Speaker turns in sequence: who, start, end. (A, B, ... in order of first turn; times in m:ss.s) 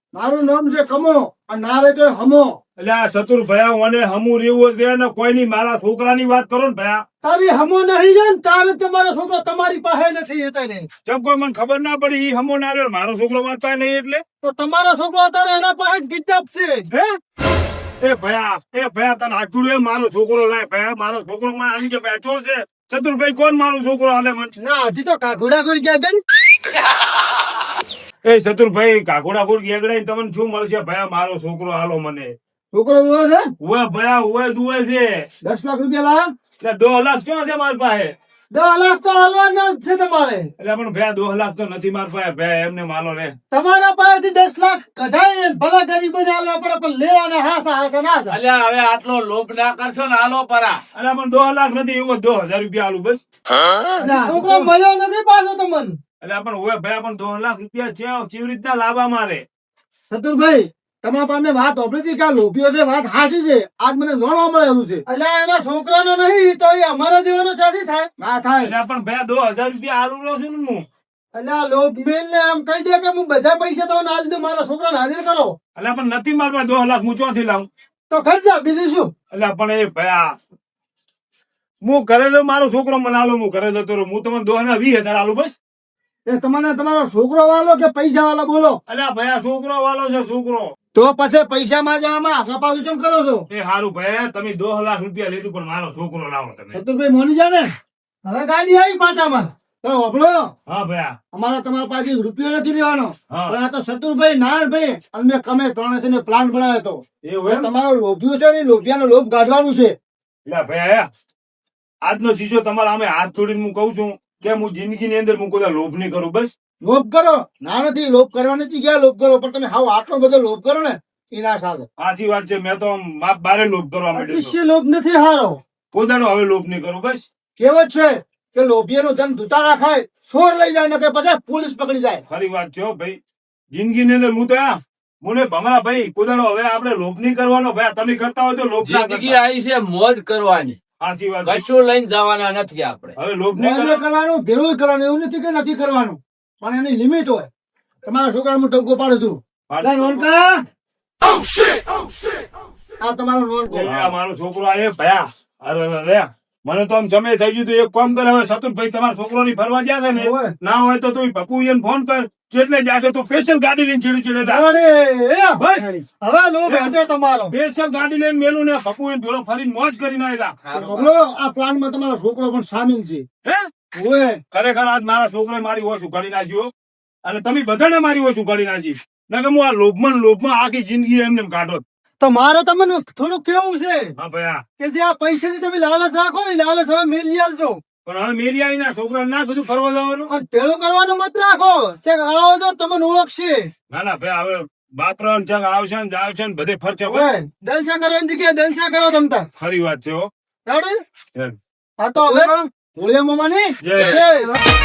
0:00.1-0:02.6 A
0:02.8-0:07.0 B
0:07.2-0:10.9 A
0:11.1-0:14.2 B
0:14.4-0:16.9 A
0:18.0-0:24.5 B
0:24.6-0:26.2 A
0:28.2-0:32.4 B
0:32.7-0:33.5 A
0:33.6-0:35.3 B
0:35.4-0:36.3 A
0:36.6-0:38.1 B
0:38.5-0:40.5 A
0:40.6-0:43.4 B
0:43.5-0:48.4 A
0:48.3-0:50.8 C
0:51.0-0:53.2 B
0:54.0-0:56.0 A
0:56.2-0:59.4 B
1:00.1-1:08.7 A
1:08.6-1:10.8 B
1:11.3-1:15.6 A
1:15.8-1:17.7 B
1:18.1-1:19.1 A
1:19.3-1:20.4 B
1:21.8-1:25.6 B
1:26.3-1:28.8 A
1:28.9-1:30.7 B
1:30.9-1:33.5 A
1:33.5-1:36.8 B
1:36.7-1:37.7 A
1:38.2-1:40.5 A
1:40.7-1:41.2 B
1:41.3-1:50.0 A
1:43.3-1:43.6 B
1:47.2-1:47.7 B
1:50.5-1:51.1 B
1:52.0-1:56.5 B
1:56.8-2:01.9 A
2:02.0-2:04.6 B
2:04.1-2:05.6 A
2:05.9-2:07.3 B
2:07.6-2:12.2 A
2:12.3-2:13.2 B
2:13.7-2:19.4 B
2:18.8-2:20.8 C
2:21.0-2:21.6 B
2:21.5-2:23.1 C
2:23.2-2:24.0 B
2:23.6-2:27.5 A
2:28.0-2:30.6 A
2:29.7-2:30.3 B
2:33.0-2:34.1 A
2:33.7-2:44.6 B
2:40.2-2:40.5 A
2:44.4-2:47.6 A
2:45.6-2:45.9 B
2:46.7-2:46.9 B
2:47.5-2:50.6 B
2:50.7-2:51.1 C
2:50.8-2:53.3 A
2:54.0-2:54.4 A
2:54.5-2:56.7 B
2:57.2-3:01.8 B
3:02.2-3:04.1 A
3:04.2-3:04.6 B
3:04.8-3:07.8 A
3:08.0-3:10.3 B
3:10.3-3:13.7 A
3:13.9-3:17.3 B
3:17.1-3:19.5 A
3:19.6-3:20.3 B
3:20.7-3:21.0 A
3:22.0-3:24.6 A
3:23.8-3:24.2 B